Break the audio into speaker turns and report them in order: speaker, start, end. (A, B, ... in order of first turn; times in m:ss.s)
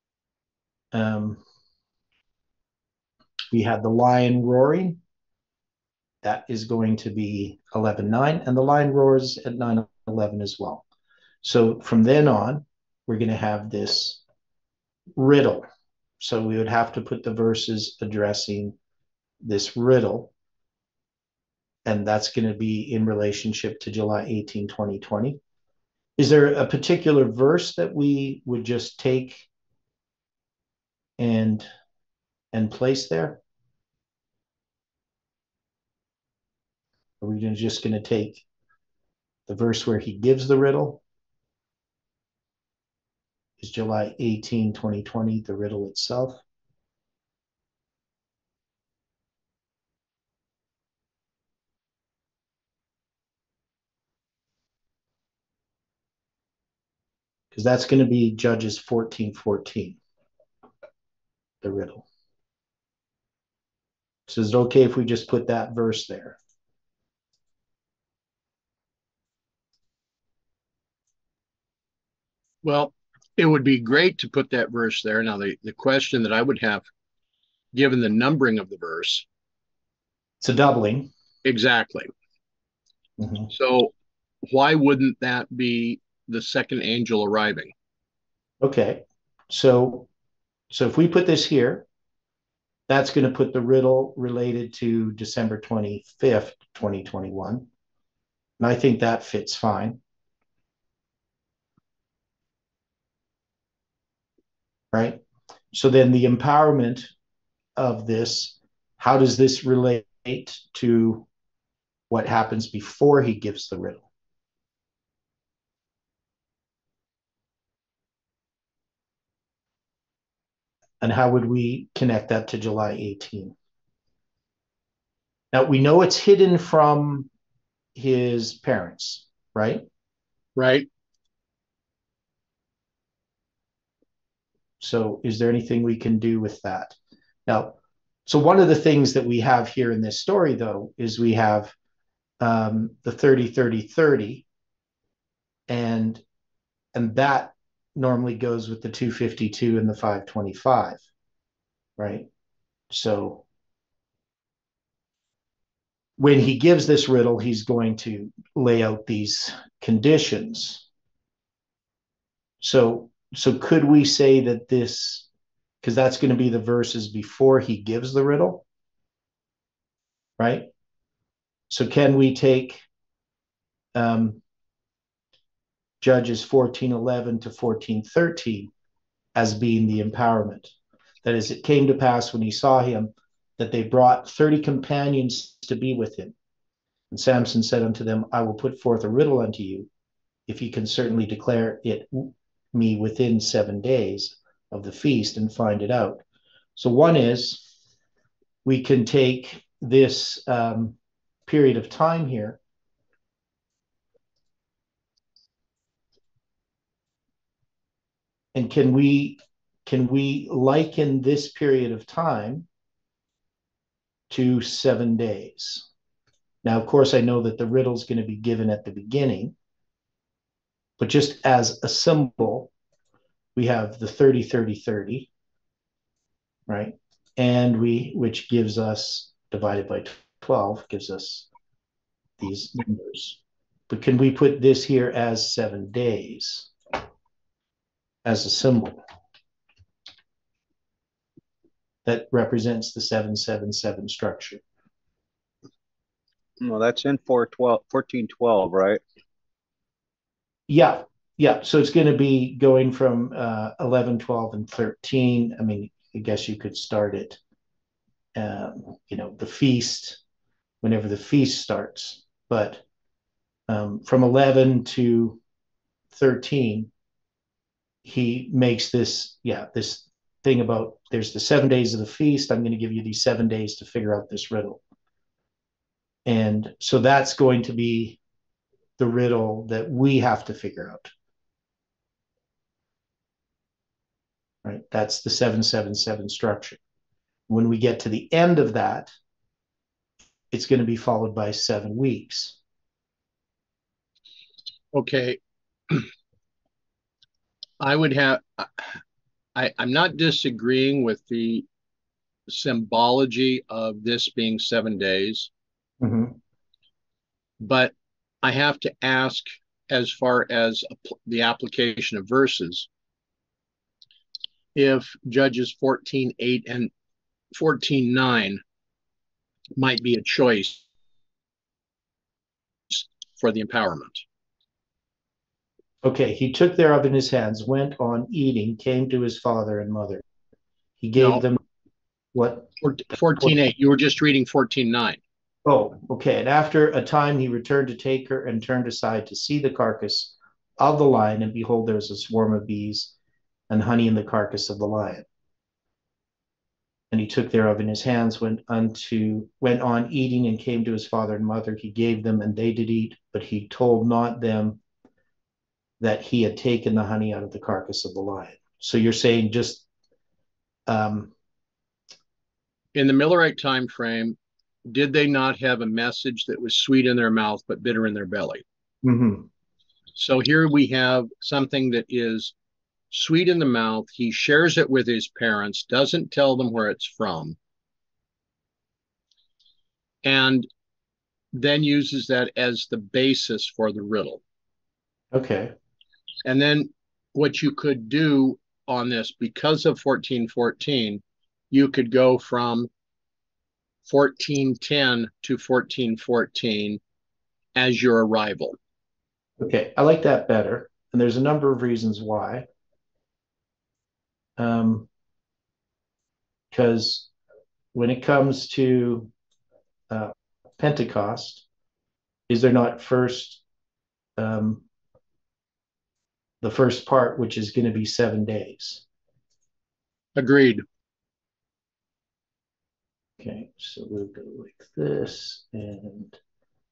0:00.9-0:01.4 A
0:03.5-0:05.0 A
0:06.2-0:10.8 A
0:11.4-0:14.2 A
0:15.2-0:15.7 A
0:16.2-0:18.8 A
0:19.4-0:20.3 A
0:21.8-0:25.4 A
0:26.2-0:29.5 A
0:31.2-0:31.7 A
0:32.5-0:33.4 A
0:37.2-0:38.4 A
0:39.5-0:41.0 A
0:43.6-0:46.4 A
0:57.5-1:00.0 A
1:01.6-1:02.0 A
1:04.3-1:06.4 A
1:12.6-1:16.8 B
1:17.7-1:19.2 B
1:20.4-1:21.1 A
1:21.4-1:22.1 B
1:23.2-1:23.5 A
1:23.5-1:23.9 B
1:24.5-1:27.7 B
1:28.6-1:30.1 A
1:30.7-1:31.9 A
1:32.9-1:37.7 A
1:38.6-1:40.0 A
1:44.9-1:45.2 A
1:45.7-1:47.1 A
1:47.8-1:51.2 A
1:52.1-1:54.0 A
2:01.0-2:03.6 A
2:05.5-2:07.3 A
2:08.0-2:09.9 A
2:10.6-2:10.9 B
2:14.8-2:17.0 A
2:17.5-2:21.7 A
2:22.4-2:24.4 A
2:25.7-2:26.2 A
2:26.9-2:31.0 A
2:32.0-2:32.3 A
2:32.9-2:33.4 A
2:36.2-2:40.8 A
2:42.6-2:45.3 A
2:45.8-2:48.6 A
2:50.4-2:50.7 A
2:51.7-2:52.8 A
2:54.0-2:54.4 A
2:56.0-2:58.7 A
2:59.4-3:00.7 A
3:01.2-3:06.3 A
3:07.1-3:09.9 A
3:10.5-3:16.2 A
3:16.8-3:17.7 A
3:18.6-3:22.6 A
3:28.5-3:32.7 A
3:34.3-3:35.9 A
3:36.6-3:39.6 A
3:41.0-3:42.7 A
3:43.6-3:45.3 A
3:46.7-3:51.5 A
3:52.4-3:56.7 A
3:58.2-3:59.0 A
4:02.0-4:04.6 A
4:06.6-4:09.0 C
4:10.7-4:17.4 A
4:18.4-4:20.2 A
4:20.8-4:22.8 A
4:23.7-4:25.4 A
4:26.1-4:26.9 A
4:28.0-4:34.8 A
4:36.3-4:38.2 A
4:39.0-4:41.1 A
4:44.6-4:46.8 A
4:47.5-4:49.1 A
4:50.5-4:52.6 A
4:54.9-4:55.4 B
4:57.8-4:59.0 B
4:59.6-5:01.7 B
5:02.5-5:05.5 B
5:06.0-5:06.4 A
5:07.6-5:12.9 B
5:14.8-5:16.9 B
5:17.5-5:18.6 B
5:19.8-5:20.8 B
5:22.9-5:24.2 B
5:26.0-5:30.2 A
5:31.0-5:31.6 A
5:31.2-5:31.4 B
5:32.3-5:32.7 A
5:32.8-5:35.2 B
5:35.6-5:43.1 A
5:43.7-5:45.2 A
5:47.1-5:54.8 A
5:56.0-5:59.8 A
6:00.9-6:01.3 A
6:03.0-6:08.6 B
6:09.0-6:09.5 A
6:10.2-6:12.5 B
6:13.1-6:17.6 B
6:20.2-6:20.7 B
6:21.5-6:24.4 B
6:25.3-6:25.7 A
6:26.4-6:32.9 B
6:34.1-6:37.0 B
6:37.8-6:38.8 B
6:39.6-6:42.7 A
6:44.6-6:45.1 A
6:46.7-6:47.3 A
6:47.9-6:49.3 A
6:50.1-6:51.6 A
6:52.5-6:53.6 A
6:54.4-6:54.8 A
6:56.6-6:59.0 A
7:00.4-7:00.8 B
7:03.4-7:06.4 A